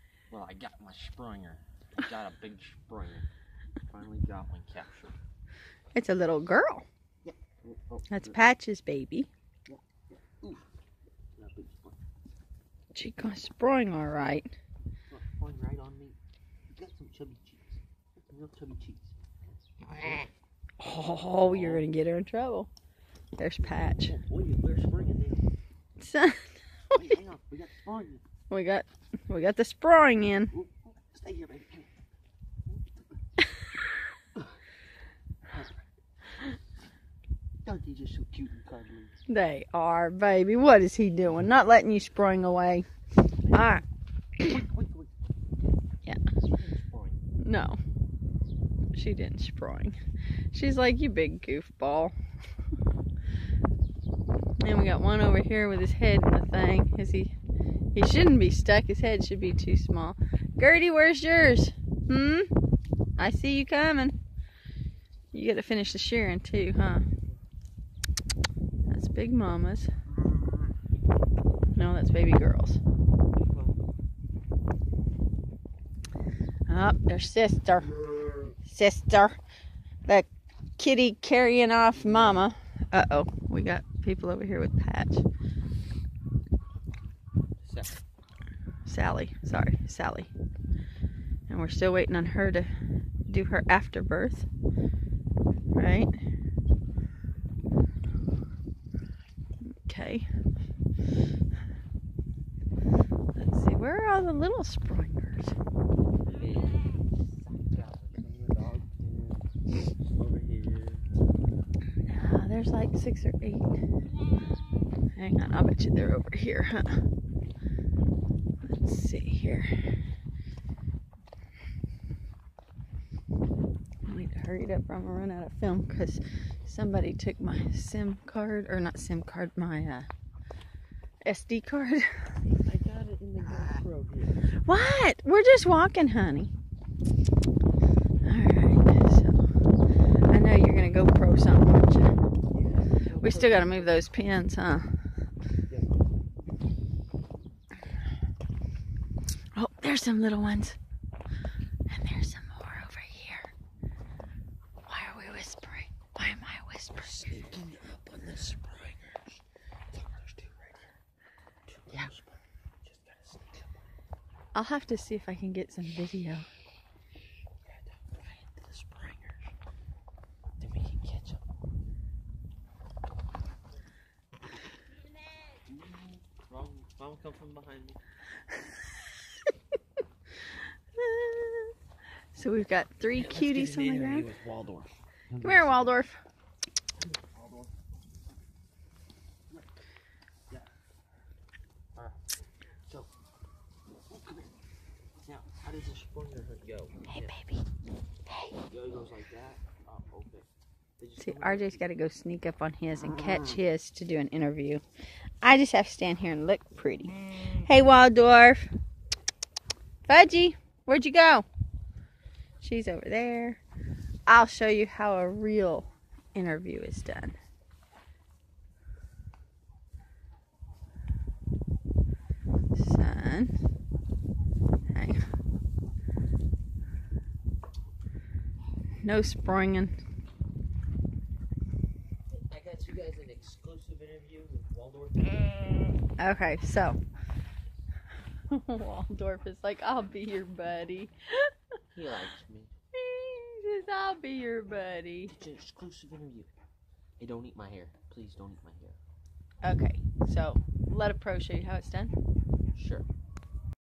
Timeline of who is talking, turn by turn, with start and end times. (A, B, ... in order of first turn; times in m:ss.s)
0:00.3-0:03.3 A
0:03.9-0:05.2 A
0:05.9-0:06.8 B
0:07.2-0:08.4 A
0:08.1-0:09.3 B
0:09.7-0:10.7 A
0:11.4-0:12.0 A
0:12.9-0:14.5 B
0:15.1-0:16.2 A
0:16.7-0:19.2 A
0:19.8-0:20.3 A
0:20.8-0:22.7 B
0:21.4-0:21.9 A
0:23.4-0:24.2 B
0:23.6-0:25.5 A
0:26.0-0:26.5 B
0:26.9-0:28.2 A
0:28.5-0:30.5 B
0:30.5-0:31.9 A
0:32.7-0:33.0 A
0:35.5-0:35.8 A
0:37.6-0:39.1 A
0:39.3-0:42.9 B
0:43.5-0:43.8 B
0:44.4-0:45.1 A
0:46.4-0:47.2 A
0:47.4-0:47.8 B
0:48.9-0:50.0 B
0:50.5-0:52.2 B
0:54.6-0:57.3 B
0:57.9-1:02.5 B
1:03.2-1:04.2 B
1:05.3-1:07.0 B
1:08.9-1:09.9 B
1:11.7-1:12.8 B
1:13.4-1:13.8 A
1:16.7-1:17.9 B
1:18.6-1:19.4 B
1:20.1-1:25.3 B
1:22.0-1:22.5 A
1:27.6-1:28.0 A
1:28.9-1:30.3 B
1:31.5-1:32.7 B
1:33.3-1:34.5 B
1:35.8-1:36.1 B
1:39.6-1:40.3 B
1:43.4-1:45.6 B
1:46.3-1:49.5 A
1:50.0-1:51.0 A
1:52.1-1:53.8 B
1:55.1-1:57.0 B
1:58.6-1:59.7 B
2:04.0-2:10.1 B
2:11.2-2:12.2 B
2:12.4-2:14.5 A
2:14.6-2:16.5 B
2:18.2-2:19.4 B
2:20.3-2:22.1 B
2:22.5-2:24.0 A
2:23.2-2:24.9 B
2:29.6-2:30.8 B
2:31.9-2:33.5 B
2:34.9-2:37.4 B
2:37.0-2:39.3 A
2:39.9-2:40.9 A
2:41.7-2:43.6 A
2:44.5-2:46.5 B
2:47.7-2:49.4 A
2:50.6-2:51.4 A
2:56.4-2:58.0 A
3:00.5-3:01.7 B
3:02.3-3:04.3 B
3:03.2-3:05.9 A
3:05.4-3:06.2 B
3:07.2-3:07.7 A
3:14.1-3:14.5 A
3:15.2-3:17.3 A
3:17.1-3:17.6 B
3:18.3-3:18.6 B
3:18.7-3:20.5 A
3:21.0-3:21.8 A
3:21.2-3:24.8 B
3:23.0-3:23.6 A
3:25.4-3:28.7 B
3:30.1-3:31.4 B
3:32.6-3:33.6 B
3:34.3-3:37.4 B
3:42.8-3:43.5 B
3:44.9-3:45.2 B
3:49.0-3:50.0 B
3:52.3-3:55.9 A
3:56.2-3:57.0 B
3:58.5-4:01.5 B
4:01.9-4:02.7 A
4:02.9-4:05.3 B
4:05.3-4:06.5 A
4:07.2-4:09.0 A
4:09.6-4:12.1 B
4:12.8-4:13.0 A